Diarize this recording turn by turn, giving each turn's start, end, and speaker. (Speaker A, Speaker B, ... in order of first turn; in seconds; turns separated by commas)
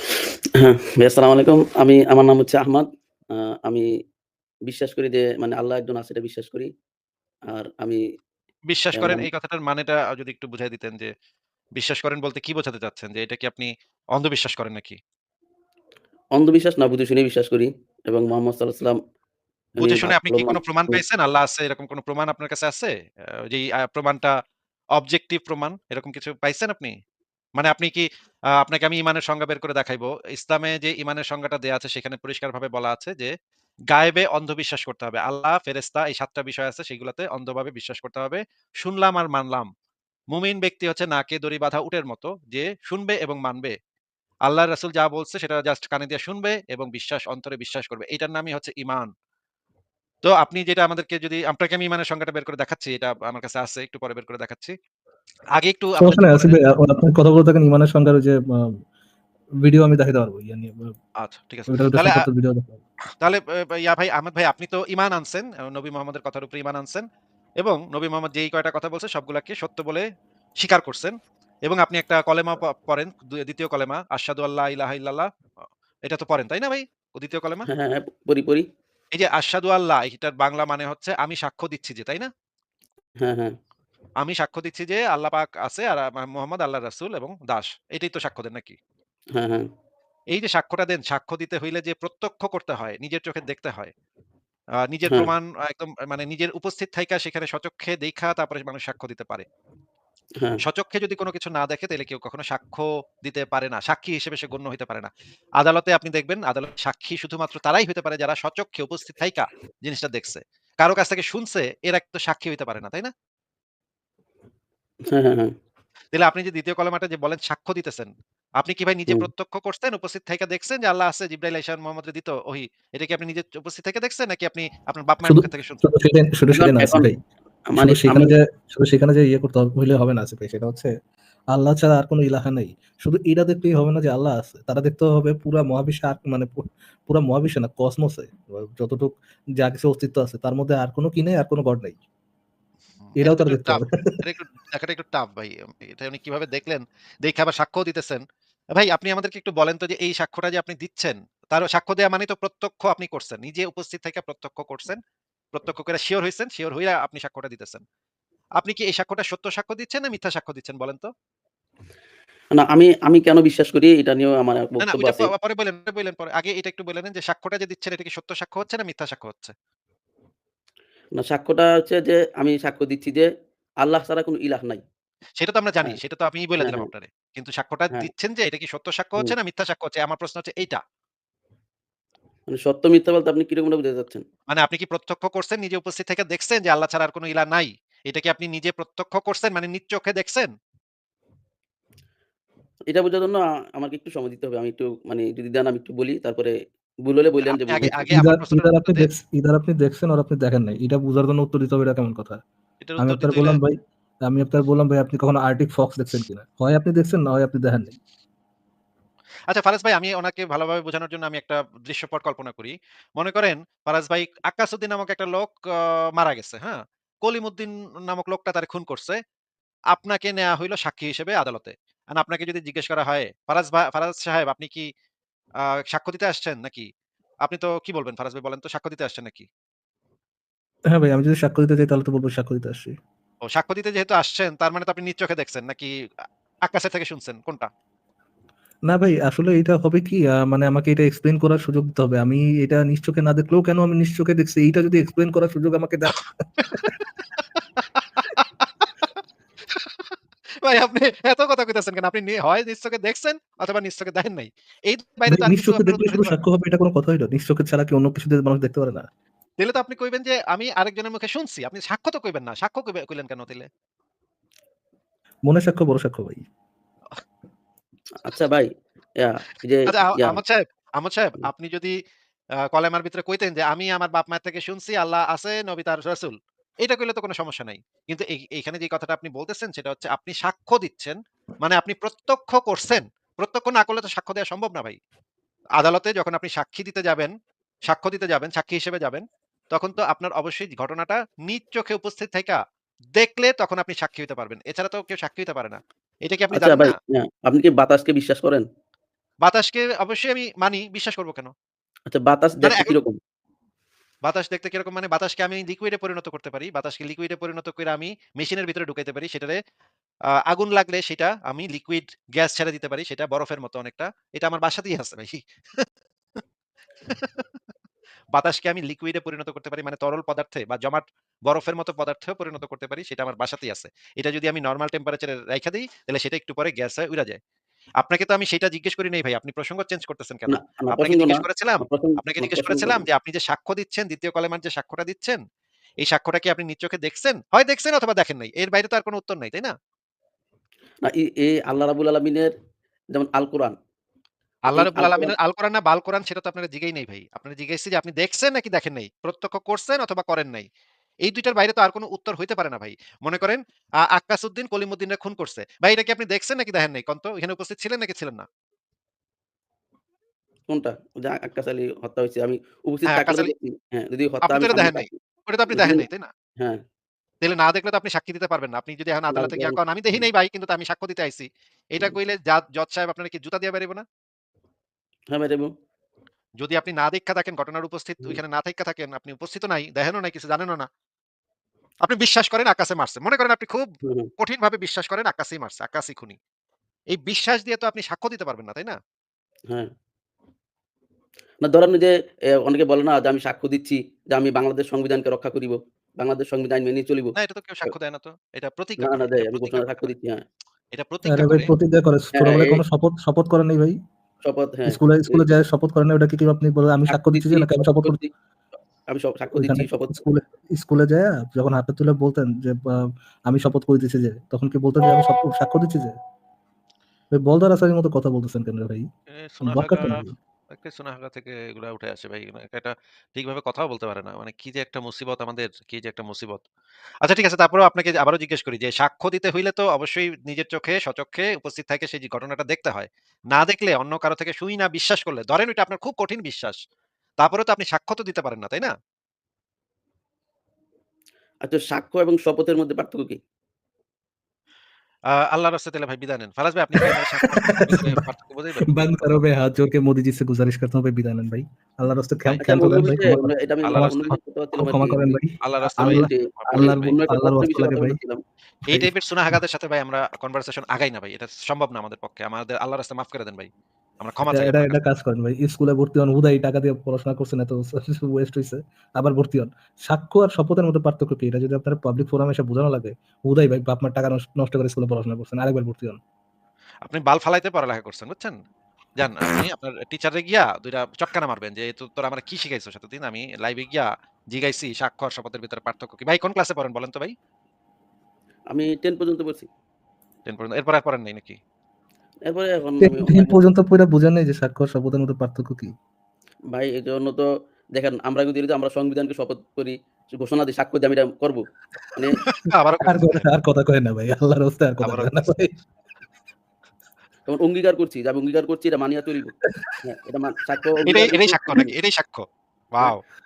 Speaker A: 0.5-3.9, Speaker A: 4.7-6.7, Speaker A: 7.5-8.0, Speaker B: 8.7-11.1, Speaker A: 9.0-9.2, Speaker B: 11.8-15.0, Speaker A: 16.3-19.0, Speaker B: 19.8-22.9, Speaker A: 19.8-21.0, Speaker B: 23.5-24.3, Speaker B: 24.9-26.9, Speaker B: 27.6-28.0, Speaker B: 28.6-33.3, Speaker B: 33.9-39.7, Speaker B: 40.3-43.7, Speaker B: 44.5-49.1, Speaker B: 50.2-54.7, Speaker B: 55.6-56.6, Speaker C: 56.0-58.7, Speaker C: 59.6-60.9, Speaker B: 61.2-62.2, Speaker C: 61.7-62.8, Speaker B: 63.2-67.0, Speaker B: 67.6-70.0, Speaker B: 70.6-71.1, Speaker B: 71.7-75.3, Speaker B: 76.0-77.7, Speaker A: 77.7-78.7, Speaker B: 79.1-82.3, Speaker A: 83.2-83.5, Speaker B: 84.2-88.8, Speaker A: 89.3-89.7, Speaker B: 90.3-93.9, Speaker B: 94.9-99.5, Speaker B: 100.6-113.1, Speaker A: 115.1-115.5, Speaker B: 116.1-125.8, Speaker C: 125.2-127.2, Speaker A: 126.5-127.1, Speaker A: 127.7-128.3, Speaker C: 127.7-130.9, Speaker C: 131.5-142.0, Speaker B: 143.0-155.0, Speaker C: 143.2-144.2, Speaker B: 155.5-157.8, Speaker B: 158.6-161.1, Speaker A: 162.5-165.3, Speaker B: 164.8-169.5, Speaker A: 171.2-173.3, Speaker A: 173.8-174.8, Speaker B: 175.4-180.8, Speaker A: 176.6-176.9, Speaker A: 182.5-184.2, Speaker B: 184.5-190.5, Speaker A: 192.9-198.1, Speaker B: 197.4-199.1, Speaker C: 198.1-202.4, Speaker B: 202.8-203.6, Speaker C: 203.0-208.0, Speaker B: 209.5-219.2, Speaker B: 219.9-224.9, Speaker B: 225.7-226.9, Speaker B: 227.4-229.5, Speaker C: 230.9-232.9, Speaker B: 233.4-235.9, Speaker B: 236.7-237.7, Speaker C: 238.9-246.9, Speaker B: 248.0-248.8, Speaker B: 249.7-250.0, Speaker B: 250.6-256.4, Speaker C: 255.3-259.1, Speaker B: 259.6-263.7, Speaker C: 265.5-266.4, Speaker A: 268.2-270.4, Speaker B: 269.9-271.9, Speaker B: 272.7-285.0, Speaker B: 285.8-287.3, Speaker B: 287.9-292.6, Speaker B: 293.1-296.9, Speaker A: 296.5-298.7, Speaker B: 299.4-301.5, Speaker A: 302.1-303.2, Speaker B: 302.6-302.9, Speaker B: 304.2-309.6, Speaker B: 310.4-315.9, Speaker B: 317.1-317.4, Speaker B: 318.3-327.4, Speaker B: 328.0-335.4, Speaker A: 330.5-333.0, Speaker B: 336.0-339.7, Speaker A: 341.0-342.5, Speaker A: 343.1-343.8, Speaker B: 344.7-350.7, Speaker A: 344.7-345.3, Speaker B: 351.2-358.4, Speaker A: 360.7-365.2, Speaker B: 363.1-363.5, Speaker B: 364.4-366.3, Speaker A: 365.7-366.0, Speaker B: 367.4-374.0, Speaker A: 369.3-370.2, Speaker A: 375.3-375.7, Speaker B: 376.6-380.9, Speaker B: 382.0-383.9, Speaker A: 384.0-384.3, Speaker B: 384.4-386.4, Speaker B: 387.1-389.0, Speaker A: 391.6-397.3, Speaker B: 397.4-400.1, Speaker A: 399.0-400.4, Speaker B: 400.9-401.7, Speaker C: 401.2-404.0, Speaker A: 402.4-402.8, Speaker A: 404.4-405.4, Speaker C: 404.9-408.2, Speaker A: 407.1-408.3, Speaker A: 409.1-410.2, Speaker C: 409.5-416.1, Speaker C: 417.3-419.1, Speaker B: 419.3-426.6, Speaker C: 419.6-420.3, Speaker B: 427.2-436.8, Speaker B: 437.4-438.9, Speaker A: 441.6-443.4, Speaker B: 445.3-448.9, Speaker C: 447.0-448.2, Speaker C: 448.9-454.2, Speaker B: 452.4-453.3, Speaker A: 452.6-455.4, Speaker B: 453.8-454.3, Speaker C: 454.8-458.2, Speaker B: 455.6-457.1, Speaker A: 456.0-458.4, Speaker B: 458.9-463.7, Speaker B: 464.2-465.0, Speaker C: 464.5-476.2, Speaker B: 477.0-478.6, Speaker B: 479.2-487.3, Speaker A: 488.7-489.7, Speaker B: 490.4-491.6, Speaker A: 492.5-493.6, Speaker C: 493.0-495.9, Speaker A: 496.7-501.6, Speaker B: 502.4-503.6, Speaker C: 503.0-505.7, Speaker B: 505.0-505.4, Speaker A: 507.5-511.9, Speaker B: 511.1-513.2